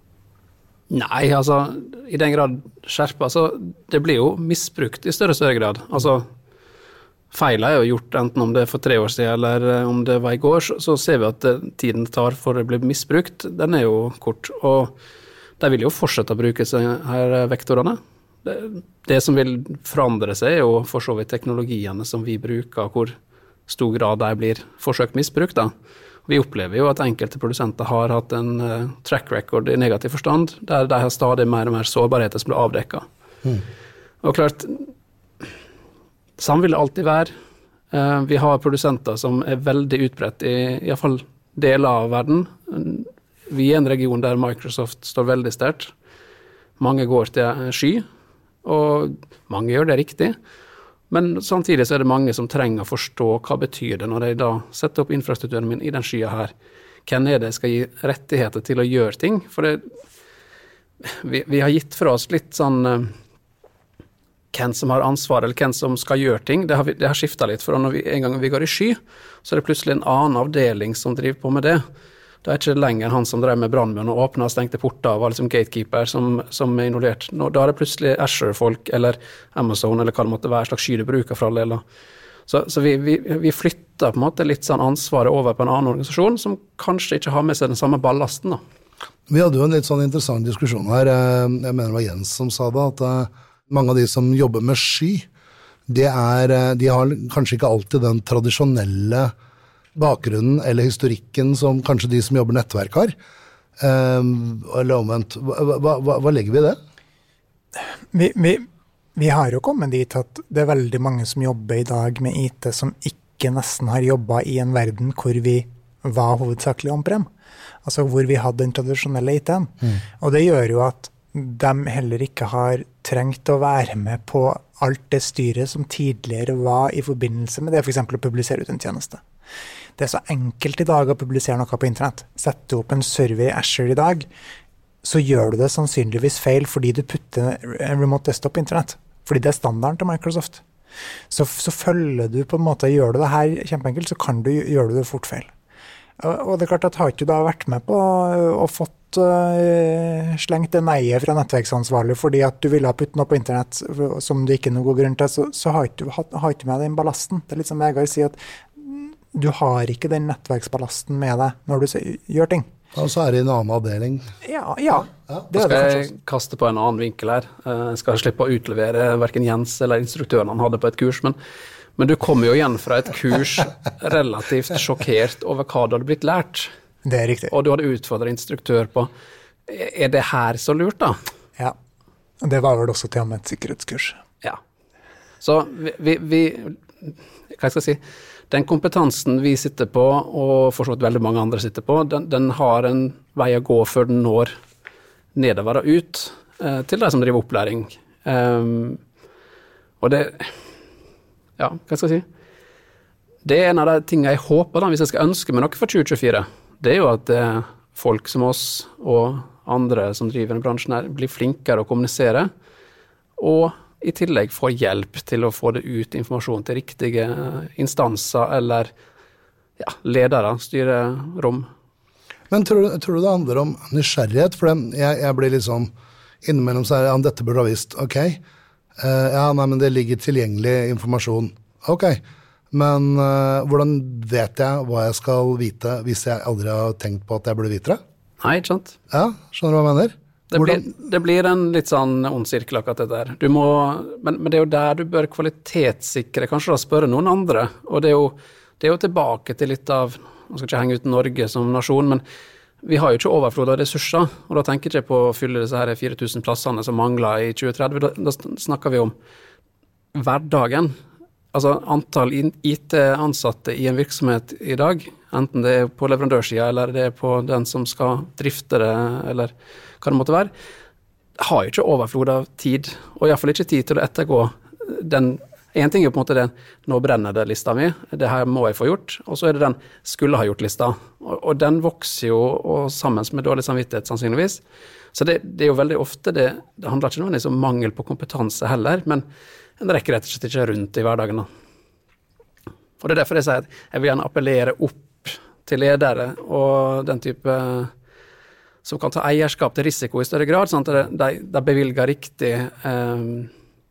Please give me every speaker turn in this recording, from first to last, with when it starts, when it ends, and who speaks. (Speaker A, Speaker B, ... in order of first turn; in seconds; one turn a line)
Speaker A: 0.9-6.3
Speaker A: 7.3-14.9
Speaker A: 15.6-23.1
Speaker A: 23.7-25.7
Speaker A: 26.3-33.0
Speaker A: 34.2-34.9
Speaker A: 36.4-37.3
Speaker A: 37.9-45.9
Speaker A: 46.8-48.0
Speaker A: 48.6-50.4
Speaker A: 51.1-56.5
Speaker A: 57.0-59.8
Speaker A: 61.0-63.1
Speaker A: 64.5-71.8
Speaker A: 72.4-81.8
Speaker A: 82.5-88.6
Speaker B: 89.3-95.2
Speaker B: 95.9-99.3
Speaker B: 99.9-103.1
Speaker B: 103.8-106.8
Speaker C: 108.1-117.3
Speaker C: 117.8-129.2
Speaker C: 130.0-134.3
Speaker C: 135.0-140.6
Speaker C: 141.3-145.5
Speaker C: 146.2-162.7
Speaker B: 162.9-164.3
Speaker C: 164.4-166.1
Speaker A: 165.5-171.3
Speaker A: 172.0-176.7
Speaker C: 177.0-177.5
Speaker A: 177.5-179.1
Speaker A: 179.7-181.2
Speaker C: 182.4-184.2
Speaker A: 185.4-194.5
Speaker A: 195.3-199.0
Speaker A: 200.0-200.6
Speaker A: 201.6-202.2
Speaker A: 203.4-212.5
Speaker A: 213.4-218.9
Speaker A: 219.8-221.7
Speaker B: 222.5-225.9
Speaker B: 226.4-228.4
Speaker B: 229.0-238.0
Speaker A: 238.4-239.0
Speaker B: 239.1-240.8
Speaker A: 240.5-252.2
Speaker A: 252.8-259.1
Speaker A: 260.1-260.9
Speaker A: 261.5-270.5
Speaker A: 271.4-284.6
Speaker A: 285.1-289.2
Speaker A: 289.8-291.5
Speaker A: 293.0-297.9
Speaker A: 298.8-303.5